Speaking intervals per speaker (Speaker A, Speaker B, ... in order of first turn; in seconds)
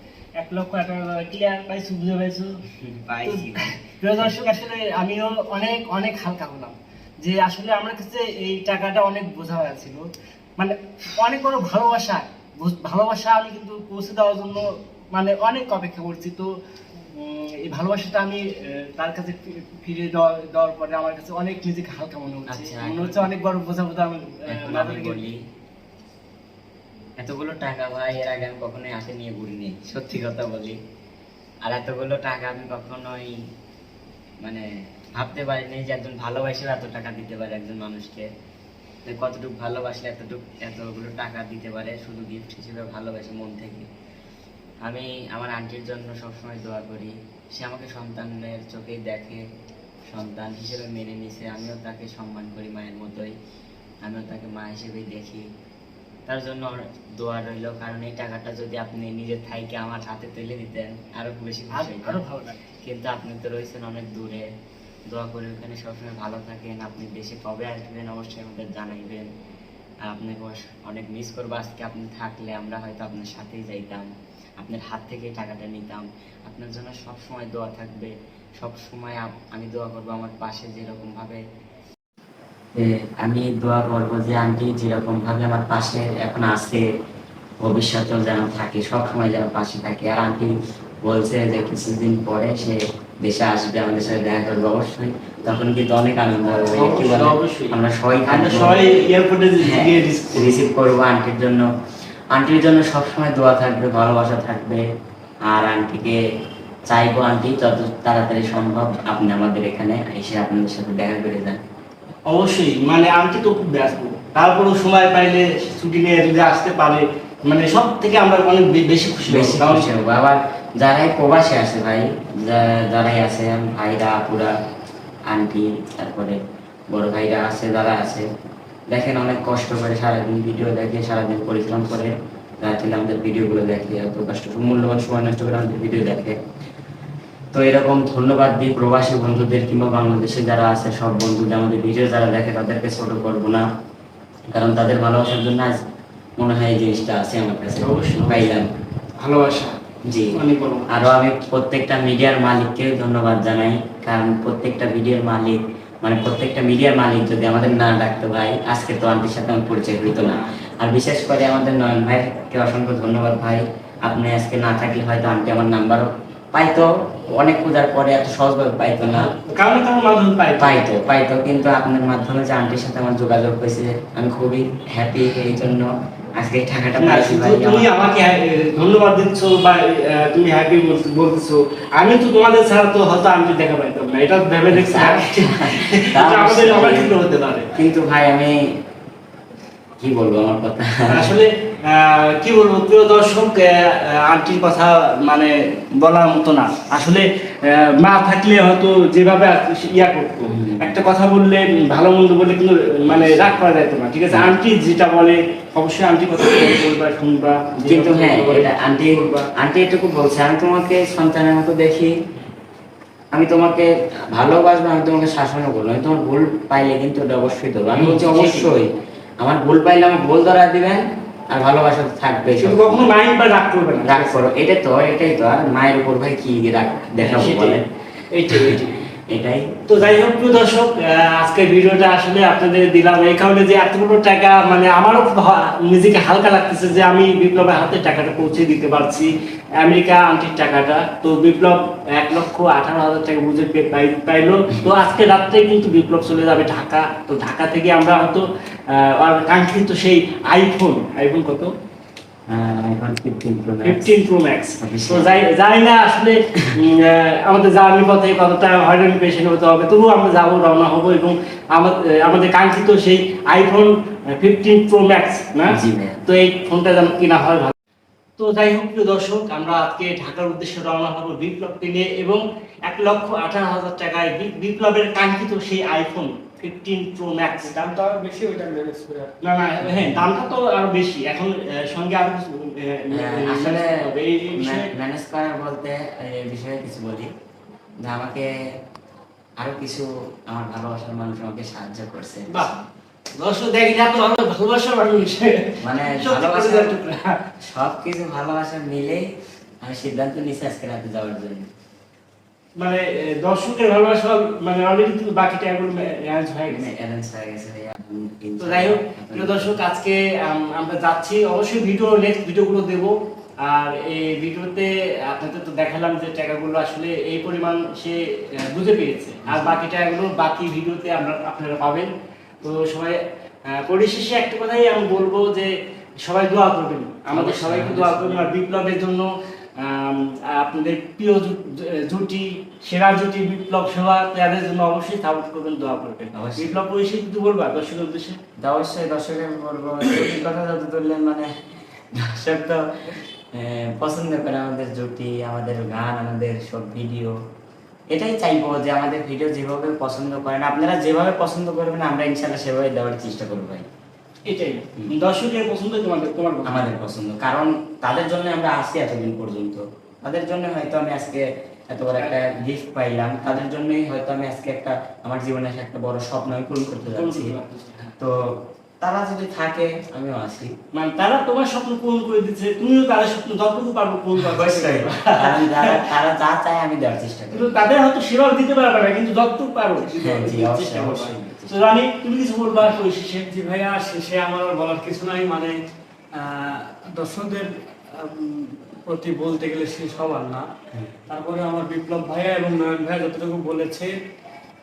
Speaker A: 0.4-2.5, 3.2-25.2, 61.8-62.6, 96.6-97.8, 98.3-100.5, 112.3-119.9, 147.8-148.6, 149.2-149.8, 150.3-151.1, 160.1-160.5, 169.1-170.9, 177.0-187.7, 191.1-209.5, 217.9-218.7, 222.6-224.5, 227.2-229.0, 229.9-251.7, 253.8-267.8, 268.4-277.9, 279.4-284.9, 293.4-297.4, 302.8-306.9, 308.6-338.4, 354.5-356.9, 367.1-368.1, 370.9-376.0, 377.5-383.5
Speaker B: 2.8-4.3, 22.5-23.3, 24.5-25.4, 27.2-30.8, 31.6-33.3, 34.4-38.3, 39.0-43.9, 44.8-49.5, 50.1-53.3, 54.0-55.5, 56.3-62.2, 62.8-64.5, 65.1-69.3, 70.1-74.1, 74.6-81.4, 82.8-86.8, 87.6-90.5, 91.0-98.9, 99.6-101.7, 102.3-104.8, 105.5-106.2, 106.9-111.6, 119.3-124.5, 125.3-126.4, 126.9-128.2, 128.9-136.4, 137.5-143.7, 144.5-145.8, 146.4-148.7, 150.1-150.4, 150.9-169.3, 170.6-177.9, 184.7-187.1, 187.8-188.7, 190.0-191.3, 200.5-201.0, 207.9-212.1, 213.3-223.1, 224.1-227.8, 229.3-229.9, 252.5-254.1, 254.8-255.3, 265.7-266.2, 279.9-280.2, 283.1-283.9, 284.5-287.3, 288.0-288.5, 289.6-292.7, 295.8-297.0, 297.7-299.2, 299.8-301.7, 306.7-309.8, 319.4-319.8, 327.3-328.5, 336.3-336.7, 338.6-341.5, 342.1-342.9, 343.5-347.3, 348.1-353.9, 356.7-367.6, 369.0-370.7, 374.4-377.9, 380.2-381.8
Speaker C: 277.7-279.4, 383.5-385.8, 386.4-390.7, 391.3-394.1